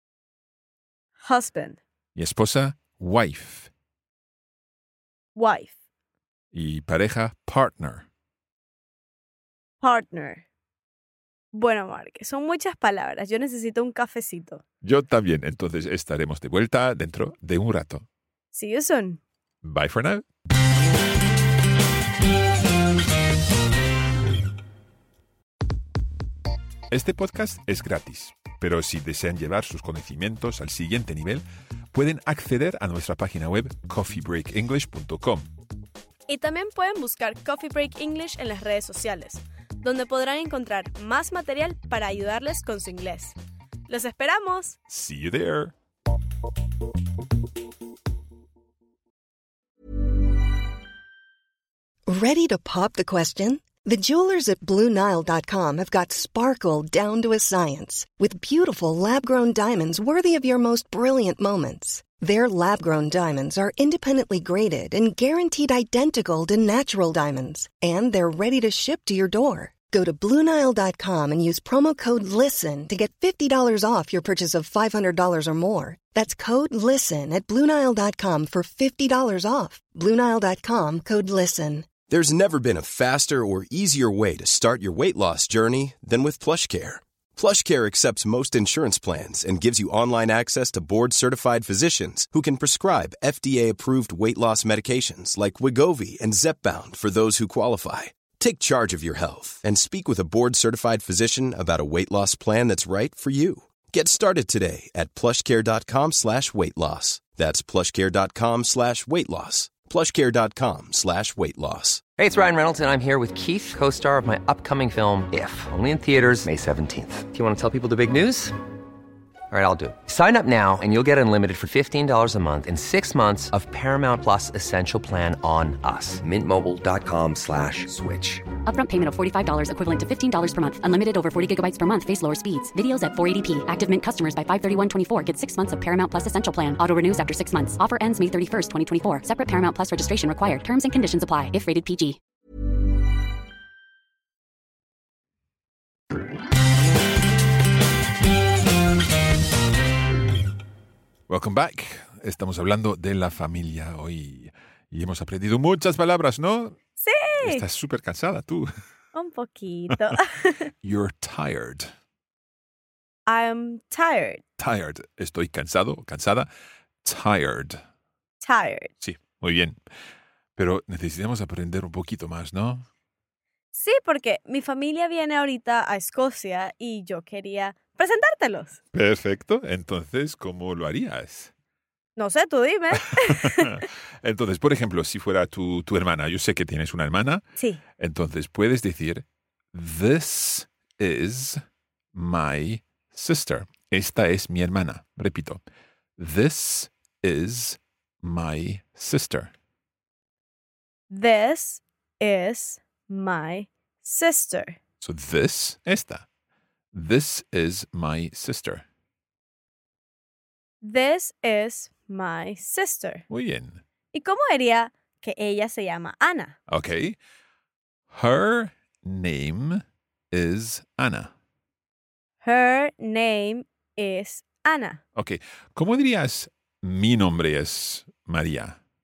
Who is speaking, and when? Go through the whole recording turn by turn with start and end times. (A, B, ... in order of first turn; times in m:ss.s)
0:01.2-0:01.8 A
0:02.2-0:03.7 B
0:05.4-0:05.8 A
0:06.5-0:08.1 B
0:09.8-0:10.4 A
0:11.5-0:14.6 A
0:14.8-0:18.1 B
0:18.5-0:19.2 A
0:19.6-0:20.2 B
0:26.9-0:35.5 B
0:36.3-0:43.4 A
0:43.9-0:44.8 A
0:44.9-0:45.7 B
0:52.1-1:21.9 C
1:22.1-1:52.0 D
1:52.2-1:58.6 E
1:59.5-2:08.5 E
2:08.7-2:22.2 F
2:31.3-2:36.8 B
2:37.0-2:37.6 A
2:37.4-2:38.7 B
2:39.1-2:40.7 A
2:40.8-2:41.9 B
2:43.3-2:44.4 A
2:44.6-2:46.5 B
2:47.0-2:47.8 B
2:48.4-2:48.9 A
2:49.0-2:49.8 B
2:50.6-2:52.9 B
2:53.7-2:58.8 A
2:58.9-3:01.5 B
3:02.2-3:03.8 A
3:03.2-3:07.4 B
3:08.0-3:11.6 B
3:12.1-3:15.6 B
3:16.2-3:19.5 B
3:21.1-3:24.8 A
3:25.0-3:26.2 B
3:26.9-3:28.8 B
3:30.8-3:33.2 A
3:33.3-3:33.8 B
3:34.1-3:36.6 A
3:36.7-3:37.2 B
3:38.1-3:41.3 B
3:42.4-3:45.0 A
3:45.2-3:48.8 B